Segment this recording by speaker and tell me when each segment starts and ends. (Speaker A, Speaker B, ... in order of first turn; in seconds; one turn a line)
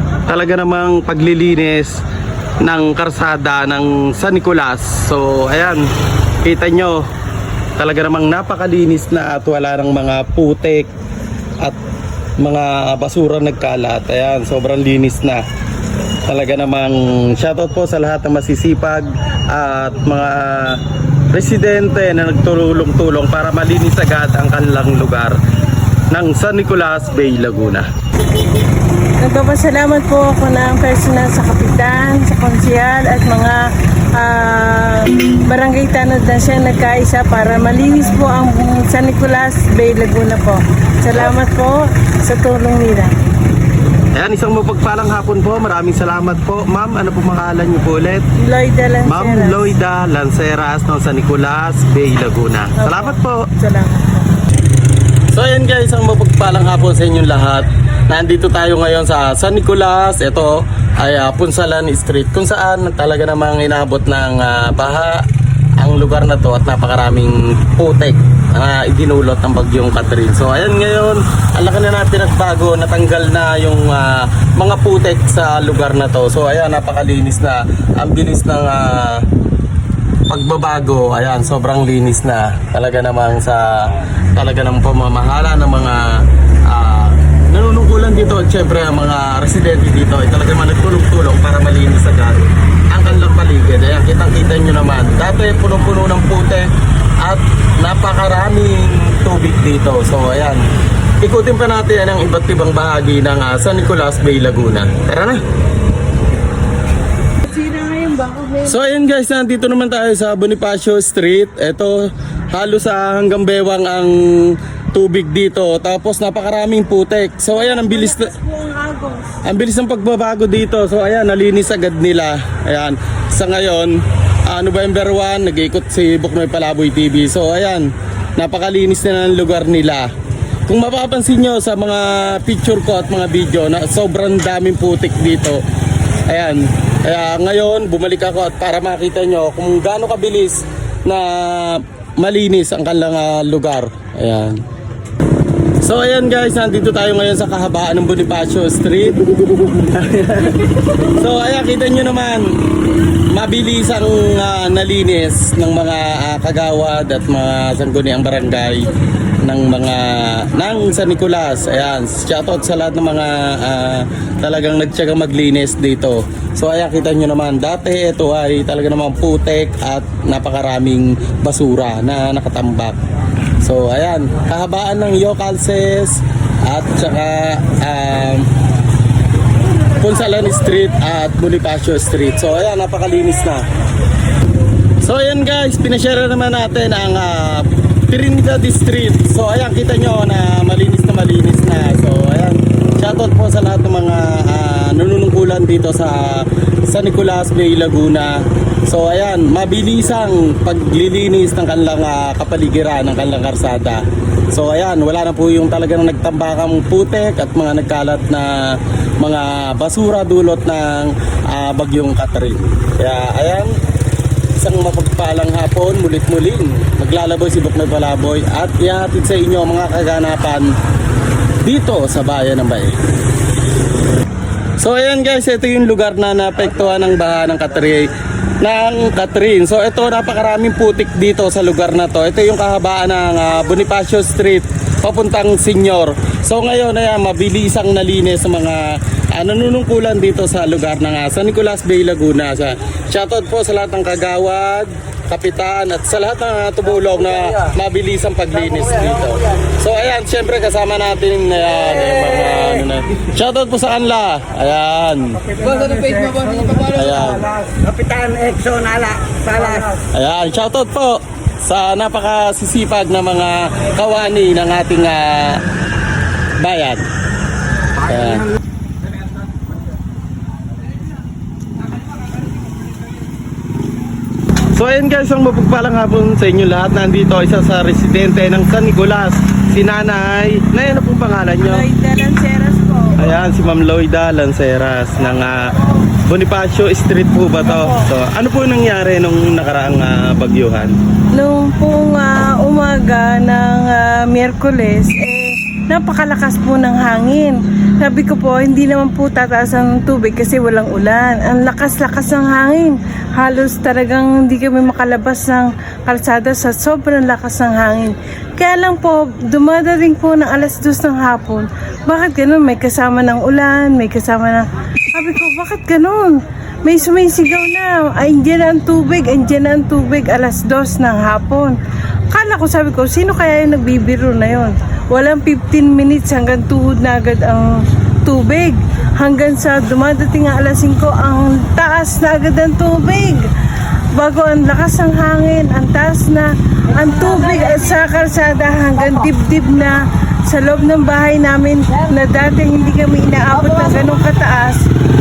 Speaker A: 0.3-2.0
Speaker A: 2.6-5.9
Speaker A: 6.4-7.1
Speaker A: 7.8-10.9
Speaker A: 12.4-15.4
Speaker A: 16.2-25.4
Speaker A: 26.1-27.9
Speaker B: 29.2-43.1
Speaker A: 44.1-48.2
Speaker B: 48.4-49.7
Speaker A: 49.0-53.5
Speaker B: 52.8-54.3
Speaker A: 55.3-65.2
Speaker A: 65.8-79.2
Speaker A: 80.3-96.7
Speaker A: 97.2-100.6
Speaker A: 101.2-105.4
Speaker B: 107.4-108.8
Speaker A: 108.6-118.3
Speaker B: 117.7-119.4
Speaker A: 119.4-130.1
Speaker A: 130.7-135.6
Speaker A: 136.3-144.6
Speaker A: 145.8-152.5
Speaker A: 153.3-158.9
Speaker A: 159.4-173.0
Speaker A: 173.6-178.5
Speaker A: 180.0-183.6
Speaker A: 185.0-213.7
Speaker A: 214.6-220.7
Speaker A: 221.6-222.9
Speaker A: 224.8-255.5
Speaker C: 255.6-256.7
Speaker A: 256.7-257.5
Speaker C: 257.9-259.8
Speaker A: 259.9-265.6
Speaker A: 266.6-267.0
Speaker A: 268.0-268.5
Speaker A: 274.7-281.8
Speaker B: 281.6-283.2
Speaker A: 283.1-290.9
Speaker B: 287.6-288.1
Speaker B: 291.3-321.8
Speaker B: 322.3-333.5
Speaker B: 334.1-344.8